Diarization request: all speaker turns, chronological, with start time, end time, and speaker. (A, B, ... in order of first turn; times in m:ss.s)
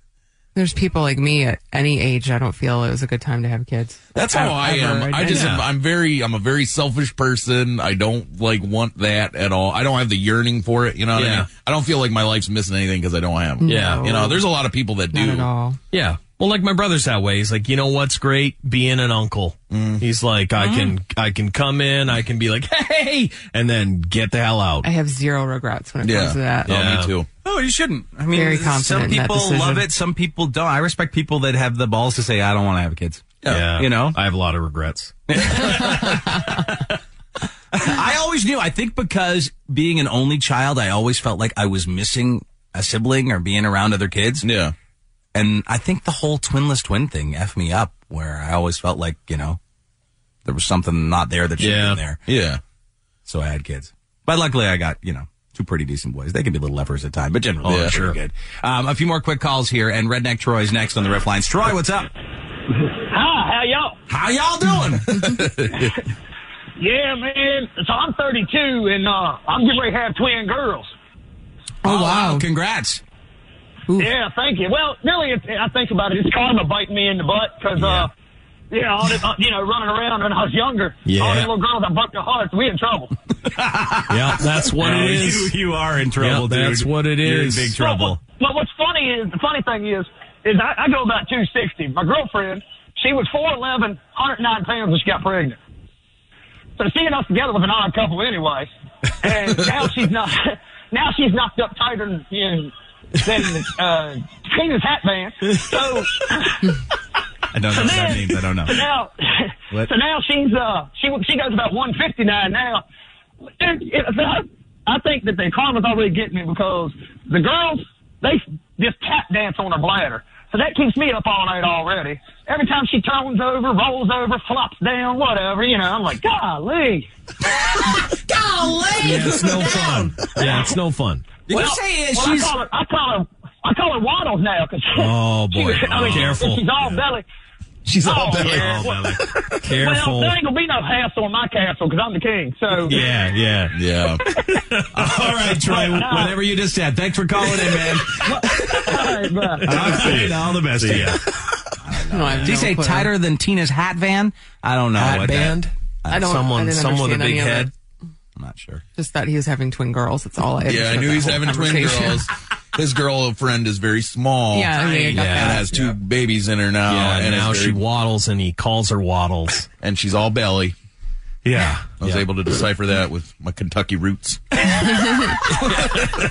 0:00.5-0:05.5 A
0:04.1-0:15.5 B
0:05.2-0:05.7 C
0:11.1-0:11.5 C
0:13.6-0:14.4 A
0:13.6-0:14.3 C
0:15.1-0:15.8 A
0:15.9-0:24.9 C
0:19.7-0:20.0 B
0:20.6-0:20.9 D
0:24.8-0:26.8 A
0:26.0-0:27.3 B
0:26.7-0:27.1 C
0:27.4-0:34.2 D
0:28.3-0:29.8 A
0:33.5-0:35.2 C
0:35.3-0:36.8 D
0:37.7-0:44.5 D
0:44.4-0:44.7 B
0:45.3-0:49.6 D
0:50.4-0:52.2 D
0:51.6-0:52.0 C
0:52.2-0:52.6 B
0:53.3-1:02.1 D
0:57.6-0:57.9 B
0:57.7-0:58.2 C
1:03.1-1:04.0 E
1:04.1-1:05.1 D
1:05.0-1:05.9 B
1:06.8-1:10.9 E
1:11.8-1:12.4 A
1:11.8-1:13.0 D
1:14.0-1:18.1 E
1:17.8-1:18.1 C
1:18.7-1:23.1 E
1:21.0-1:21.5 C
1:23.5-1:28.2 D
1:24.1-1:25.5 C
1:26.2-1:28.0 C
1:27.8-1:35.6 E
1:36.8-1:38.7 E
1:39.2-1:46.6 E
1:47.5-1:48.7 D
1:47.7-1:52.8 E
1:53.6-2:07.1 E
2:07.8-2:10.5 D
2:09.0-2:11.4 C
2:10.4-2:10.7 E
2:11.5-2:17.2 E
2:11.5-2:12.6 D
2:15.0-2:17.0 C
2:15.9-2:16.4 D
2:17.9-2:20.4 C
2:18.0-2:19.0 E
2:18.4-2:18.8 B
2:19.7-2:23.0 E
2:22.8-2:23.8 C
2:23.7-2:24.2 B
2:24.7-2:25.0 C
2:25.0-2:28.3 D
2:25.6-2:26.4 E
2:28.2-2:29.8 E
2:29.4-2:31.2 C
2:29.6-2:31.2 D
2:31.9-2:36.2 D
2:32.1-2:32.7 C
2:32.1-2:33.1 A
2:34.9-2:37.7 C
2:36.1-2:37.7 A
2:38.4-2:38.8 D
2:39.0-2:42.2 A
2:40.6-2:47.8 B
2:44.5-2:45.7 A
2:44.8-2:45.5 D
2:45.1-2:46.0 C
2:46.8-2:49.7 C
2:49.8-2:50.7 B
2:51.4-2:52.3 C
2:52.0-2:54.4 B